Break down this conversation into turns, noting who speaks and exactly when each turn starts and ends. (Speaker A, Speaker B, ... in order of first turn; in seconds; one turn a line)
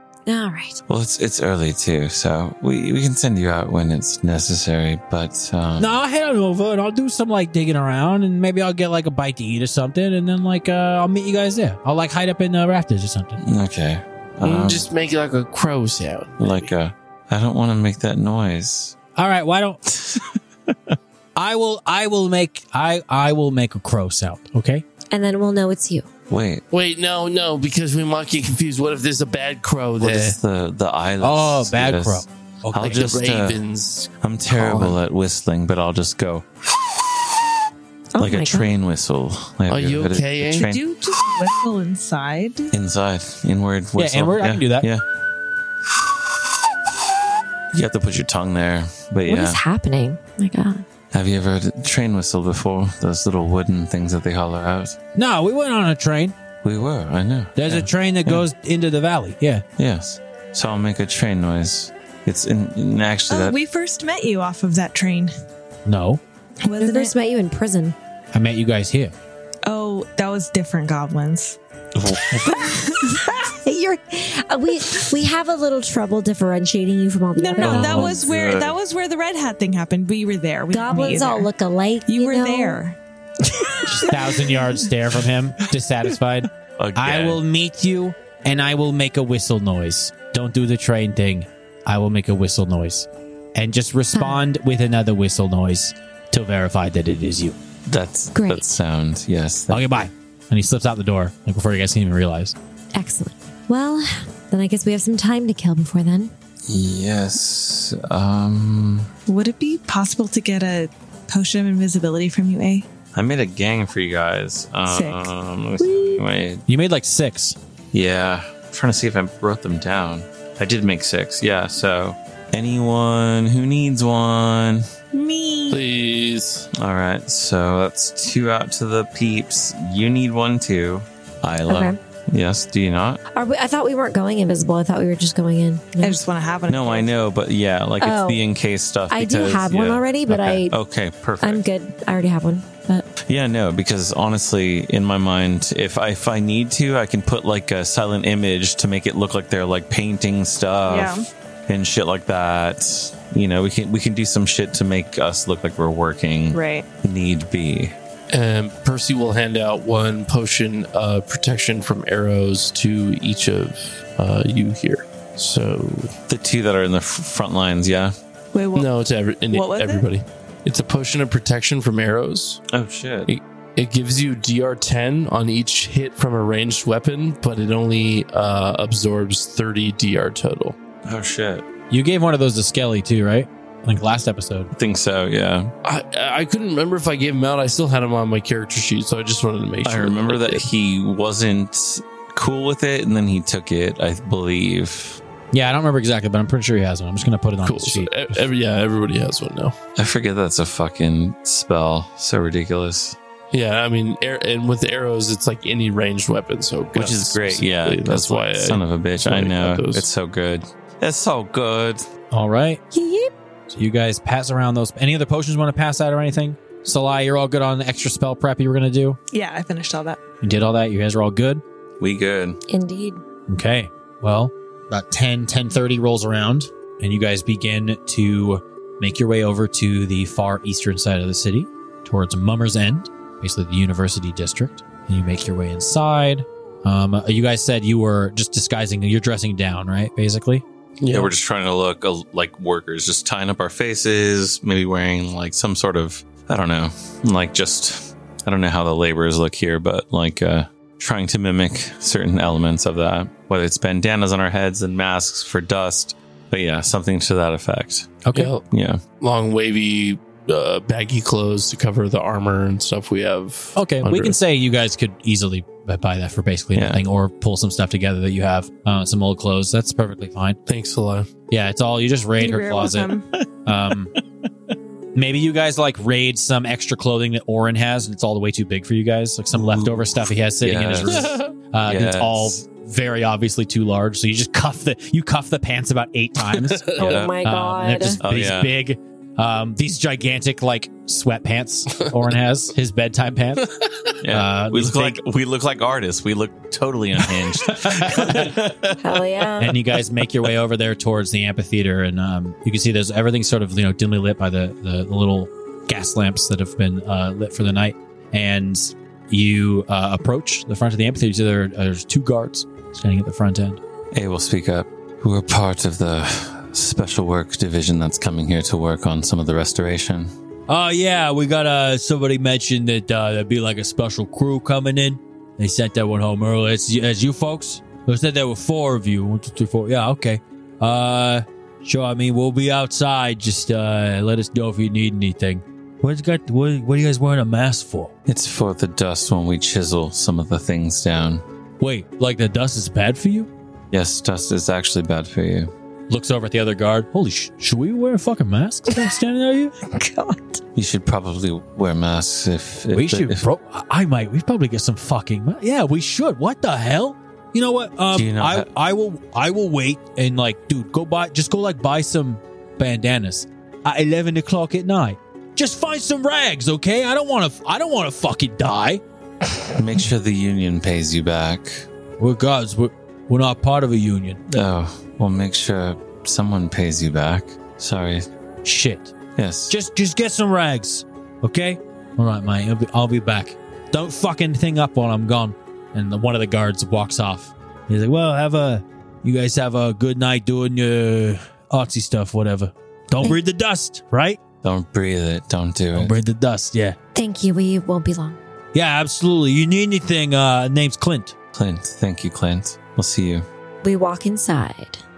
Speaker A: 0.2-0.8
Speaker B: 0.9-5.9
Speaker C: 5.8-13.4
Speaker B: 13.4-14.9
Speaker D: 14.4-16.7
Speaker B: 16.4-18.9
Speaker C: 19.1-19.8
Speaker B: 19.9-20.9
Speaker C: 21.4-24.8
Speaker A: 25.1-26.1
Speaker B: 26.3-26.6
Speaker D: 26.7-30.4
Speaker B: 30.0-33.6
Speaker C: 31.2-33.2
Speaker D: 32.8-35.0
Speaker B: 34.2-36.5
Speaker A: 38.1-38.7
Speaker B: 38.2-40.8
Speaker D: 39.7-40.7
Speaker E: 40.5-42.7
Speaker B: 42.7-45.0
Speaker C: 44.0-44.9
Speaker B: 47.7-49.6
Speaker A: 49.2-50.8
Speaker B: 51.1-55.0
Speaker C: 55.1-56.4
Speaker B: 56.6-58.4
Speaker C: 57.5-59.6
Speaker B: 59.8-63.6
Speaker E: 63.3-65.3
Speaker C: 65.8-66.2
Speaker E: 66.6-67.1
Speaker A: 66.8-68.0
Speaker C: 68.3-69.1
Speaker E: 69.6-71.6
Speaker B: 72.0-72.5
Speaker E: 72.5-73.3
Speaker A: 73.0-78.1
Speaker E: 77.3-81.5
Speaker B: 77.6-78.8
Speaker A: 80.7-82.8
Speaker E: 82.1-84.6
Speaker C: 83.9-97.6
Speaker B: 86.8-87.4
Speaker A: 94.1-94.4
Speaker B: 97.9-100.1
Speaker A: 98.3-98.8
Speaker C: 99.7-102.5
Speaker A: 102.9-106.3
Speaker B: 106.7-109.1
Speaker E: 109.3-112.9
Speaker B: 113.1-116.6
Speaker E: 114.9-115.3
Speaker A: 115.8-116.2
Speaker C: 116.7-117.6
Speaker B: 117.9-124.9
Speaker E: 125.1-125.8
Speaker D: 125.7-126.7
Speaker B: 126.7-133.2
Speaker A: 131.7-132.0
Speaker A: 133.3-136.2
Speaker E: 136.0-137.1
Speaker B: 136.7-141.6
Speaker A: 138.0-138.4
Speaker A: 139.1-140.8
Speaker A: 141.4-143.1
Speaker B: 143.2-157.9
Speaker E: 150.9-151.2
Speaker E: 156.5-156.8
Speaker D: 158.3-166.1
Speaker B: 166.3-168.1
Speaker E: 168.5-170.1
Speaker D: 168.7-172.6
Speaker B: 172.7-173.3
Speaker D: 173.3-180.8
Speaker B: 181.0-181.7
Speaker C: 181.9-184.7
Speaker B: 184.7-185.7
Speaker D: 185.8-190.6
Speaker B: 189.8-195.2
Speaker C: 195.5-198.4
Speaker D: 197.6-199.8
Speaker B: 200.0-203.2
Speaker D: 203.5-210.1
Speaker B: 206.9-212.1
Speaker C: 212.3-212.8
Speaker A: 212.9-213.3
Speaker C: 213.7-219.2
Speaker E: 219.3-220.2
Speaker C: 220.4-221.6
Speaker B: 222.0-222.6
Speaker A: 222.7-223.2
Speaker C: 223.5-240.6
Speaker D: 241.0-241.3
Speaker B: 241.1-259.0
Speaker C: 258.2-258.5
Speaker D: 258.3-258.6
Speaker D: 259.2-264.4
Speaker C: 263.7-270.6
Speaker B: 266.7-267.0
Speaker D: 270.7-271.3
Speaker C: 271.5-273.1
Speaker E: 272.4-273.3
Speaker C: 273.6-274.1
Speaker C: 275.1-293.7
Speaker B: 279.7-281.3
Speaker D: 281.1-281.5
Speaker B: 281.8-282.6
Speaker B: 286.7-287.3
Speaker A: 286.9-288.2
Speaker B: 288.2-288.7
Speaker B: 294.2-299.0
Speaker C: 294.3-295.2
Speaker C: 297.8-298.5
Speaker A: 299.0-299.7
Speaker C: 299.6-313.8
Speaker B: 314.1-320.3
Speaker C: 320.7-338.1
Speaker B: 338.3-341.4
Speaker C: 341.8-343.5
Speaker B: 343.9-345.7
Speaker C: 346.1-349.7
Speaker A: 349.9-350.6
Speaker B: 350.7-353.4
Speaker C: 352.9-369.0
Speaker B: 358.1-358.7
Speaker B: 369.7-371.9
Speaker C: 372.2-374.4
Speaker B: 374.5-378.3
Speaker C: 378.6-379.1
Speaker B: 379.4-379.7
Speaker C: 379.7-394.4
Speaker B: 394.6-396.1
Speaker C: 395.9-397.0
Speaker A: 397.1-398.4
Speaker C: 398.7-401.3
Speaker B: 401.5-403.4
Speaker A: 403.8-405.0